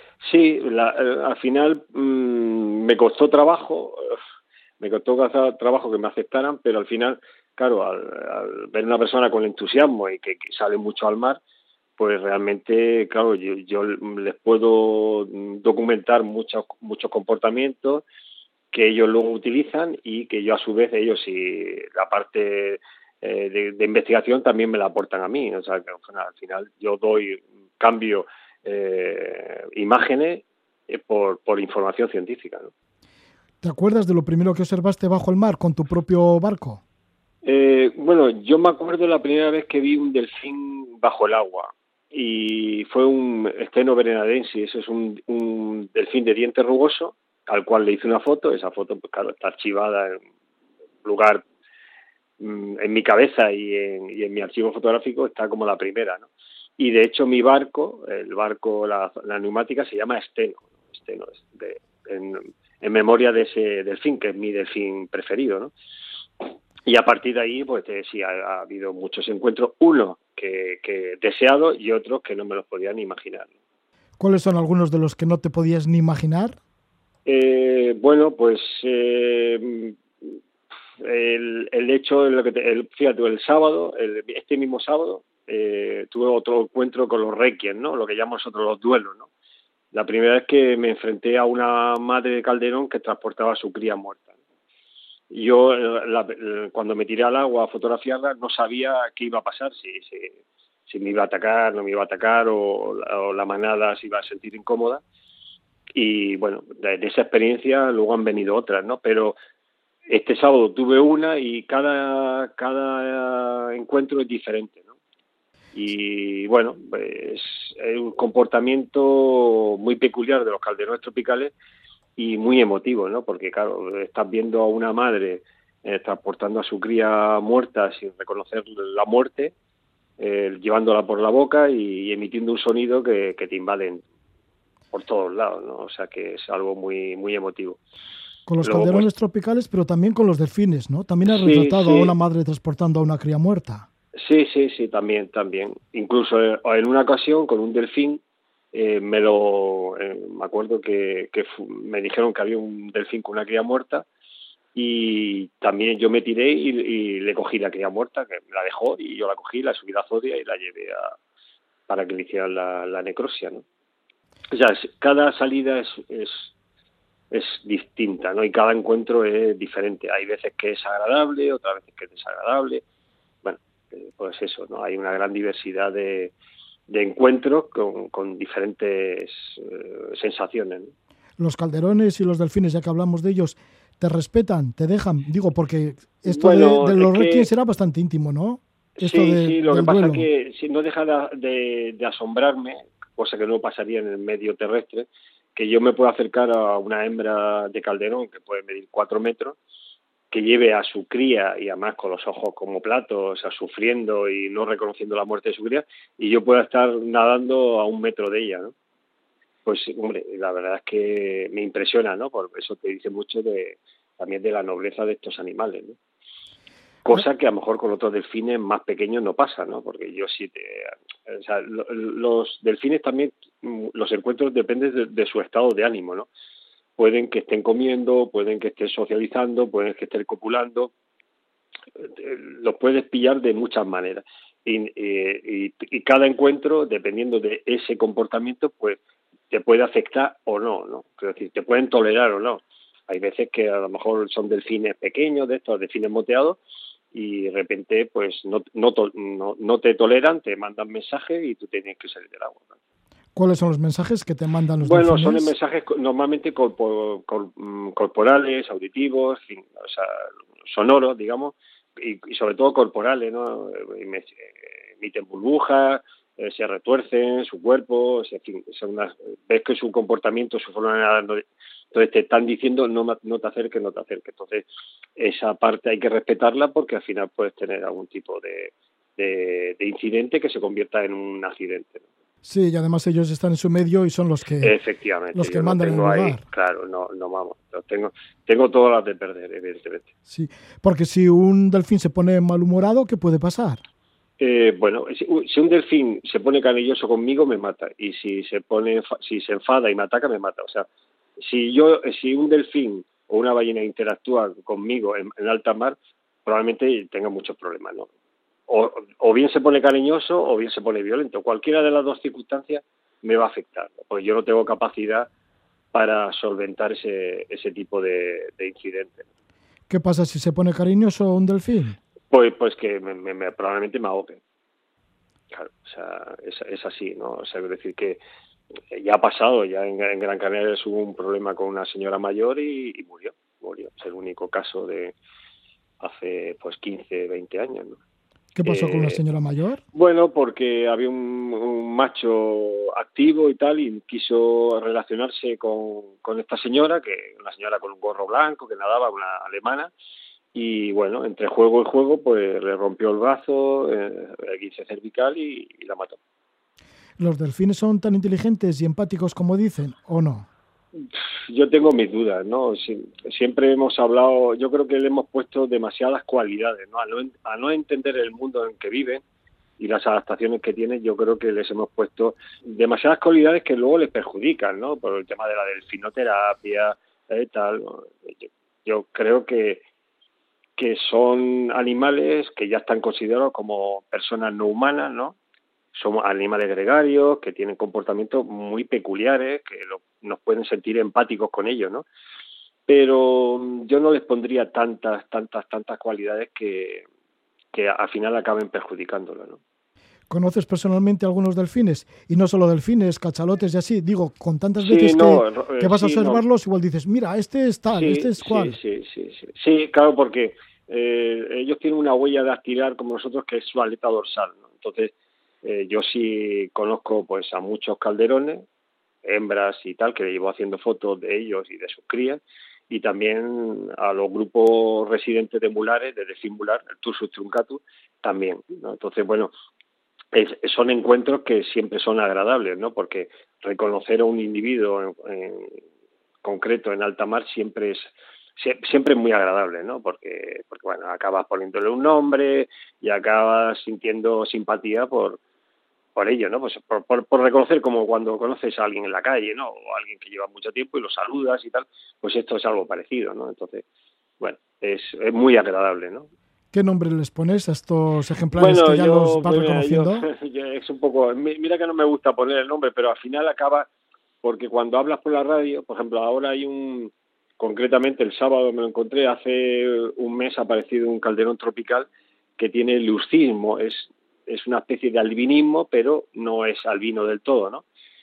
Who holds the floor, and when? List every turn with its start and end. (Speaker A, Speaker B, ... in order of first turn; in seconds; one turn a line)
Speaker A: 0.2-4.2
Speaker A: 4.8-11.4
Speaker A: 12.0-18.0
Speaker A: 18.7-32.7
Speaker B: 33.6-36.8
Speaker A: 37.4-50.2
Speaker A: 51.0-51.4
Speaker A: 52.4-56.3
Speaker A: 56.8-65.7
Speaker A: 66.4-73.5
Speaker B: 74.2-76.6
Speaker A: 77.2-80.4
Speaker A: 81.0-89.2
Speaker A: 89.9-94.3
Speaker A: 95.3-100.3
Speaker A: 100.9-105.0
Speaker A: 105.9-109.3
Speaker A: 110.1-114.9
Speaker A: 115.8-121.5
Speaker A: 122.2-129.5
Speaker A: 130.2-134.0
Speaker A: 134.9-137.8
Speaker B: 138.4-143.9
Speaker A: 138.6-139.1
Speaker A: 141.3-142.1
Speaker A: 144.2-148.2
Speaker A: 148.7-154.1
Speaker A: 154.8-161.1
Speaker A: 161.9-163.6
Speaker A: 164.5-166.5
Speaker A: 167.3-172.8
Speaker A: 173.4-176.3
Speaker A: 176.9-180.9
Speaker B: 181.4-190.2
Speaker A: 186.2-187.5
Speaker A: 189.0-199.6
Speaker A: 200.3-208.7
Speaker A: 209.6-216.0
Speaker A: 217.0-226.3
Speaker A: 227.0-230.9
Speaker A: 232.0-239.0
Speaker A: 239.5-246.6
Speaker A: 247.1-252.7
Speaker B: 253.3-255.5
Speaker A: 254.8-274.6
Speaker A: 275.2-282.0
Speaker B: 282.4-284.8
Speaker A: 284.6-290.1
Speaker B: 285.3-286.4
Speaker B: 290.3-293.8
Speaker A: 294.4-300.9
Speaker A: 301.4-308.1
Speaker A: 308.7-315.3
Speaker A: 315.9-319.2
Speaker B: 319.9-322.0
Speaker A: 322.3-324.4
Speaker A: 325.5-328.2
Speaker A: 328.9-335.1
Speaker A: 336.0-338.0
Speaker B: 338.5-339.8
Speaker A: 338.6-339.2
Speaker A: 339.9-349.9
Speaker A: 350.5-356.2
Speaker B: 357.2-360.5
Speaker A: 361.0-369.2
Speaker A: 369.8-379.8
Speaker A: 380.8-385.4
Speaker A: 385.9-392.0
Speaker A: 392.9-397.0
Speaker A: 397.7-399.6
Speaker B: 400.3-408.8
Speaker A: 404.8-406.4
Speaker A: 407.9-415.1
Speaker A: 415.6-418.6
Speaker A: 419.2-429.5
Speaker A: 430.3-435.8
Speaker A: 436.4-445.4
Speaker A: 446.1-453.8
Speaker A: 454.4-456.3
Speaker B: 456.7-460.2
Speaker A: 458.6-463.9
Speaker A: 464.4-477.8